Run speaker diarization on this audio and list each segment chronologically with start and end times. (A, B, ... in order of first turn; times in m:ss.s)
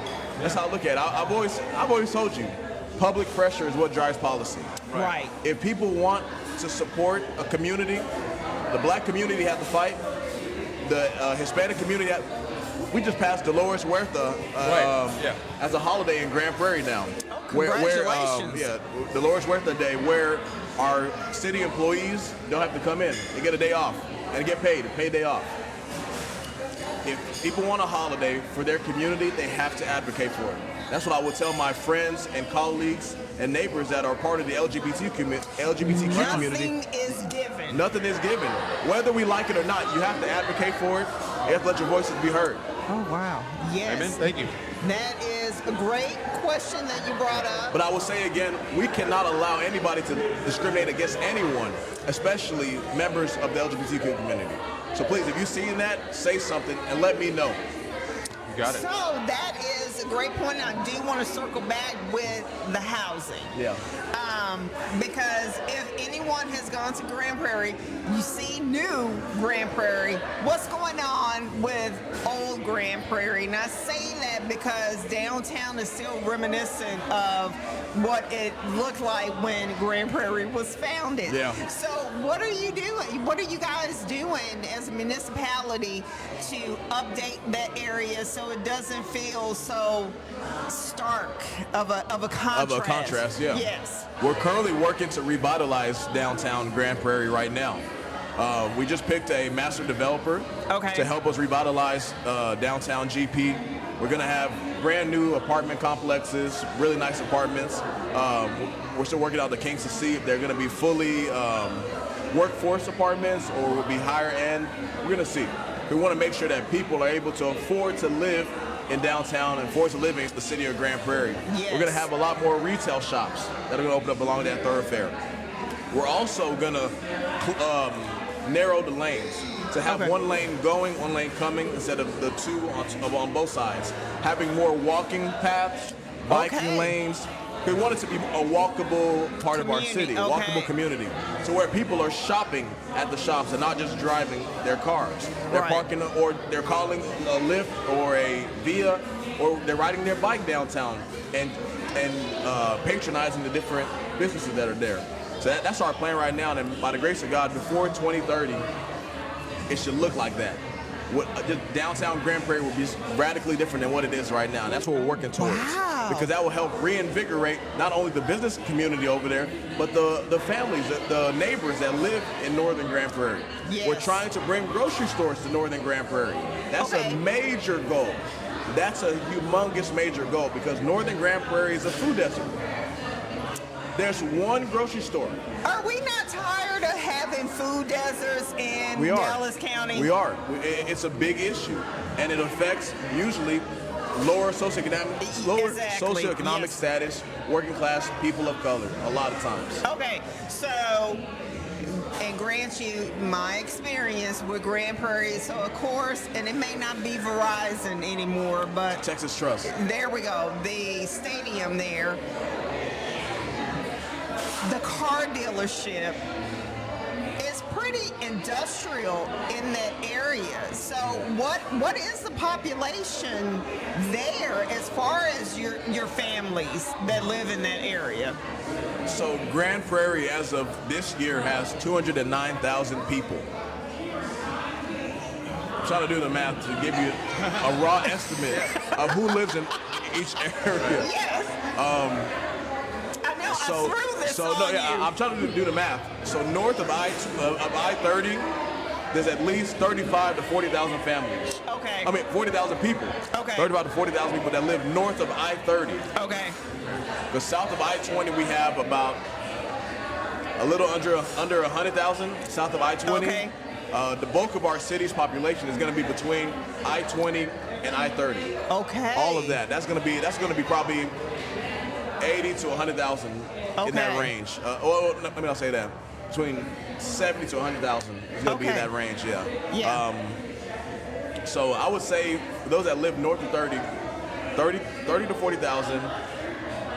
0:00.4-0:04.8 A
0:04.9-0:05.3 B
0:05.4-0:08.1 A
0:08.7-0:10.0 A
0:10.8-0:12.3 A
0:12.9-0:25.5 A
0:14.6-0:15.4 C
0:17.3-0:18.6 B
0:27.0-0:36.7 A
0:35.8-0:37.8 B
0:37.7-0:42.6 A
0:42.9-0:47.8 B
0:43.8-0:44.6 C
0:47.7-0:57.6 A
0:58.5-0:58.8 C
0:58.6-1:03.5 B
1:03.5-1:03.8 A
1:04.1-1:34.1 B
1:21.3-1:21.6 A
1:32.5-1:33.6 A
1:34.2-1:37.8 A
1:38.4-2:05.2 A
1:40.7-1:41.1 B
2:01.4-2:02.1 B
2:05.9-2:38.7 A
2:09.8-2:10.1 B
2:16.3-2:16.9 B
2:19.5-2:20.7 B
2:25.5-2:25.9 B
2:39.7-3:02.5 A
2:45.4-2:46.3 B
2:53.6-2:54.2 B
2:56.8-2:57.2 B
3:04.0-3:05.4 A
3:05.6-3:10.1 B
3:09.0-3:09.4 A
3:09.9-3:19.8 A
3:15.2-3:16.8 B
3:19.8-3:21.2 B
3:21.8-3:29.0 B
3:29.0-3:29.7 A
3:29.6-3:32.2 B
3:34.6-3:36.2 B
3:37.4-3:48.4 B
3:49.0-3:53.5 A
3:55.8-4:01.1 A
3:58.0-3:59.5 B
4:00.9-4:01.7 B
4:01.7-4:02.3 A
4:03.2-4:05.1 B
4:03.4-4:08.5 A
4:09.1-4:16.1 A
4:11.6-4:12.1 B
4:13.3-4:13.7 B
4:16.1-4:16.6 B
4:17.3-4:19.2 A
4:20.6-4:28.5 A
4:23.0-4:23.5 B
4:28.7-4:29.6 B
4:29.1-4:31.1 A
4:32.2-4:40.4 A
4:33.8-4:34.3 B
4:38.4-4:38.9 B
4:39.7-4:40.0 B
4:41.4-4:43.9 A
4:44.5-4:46.1 A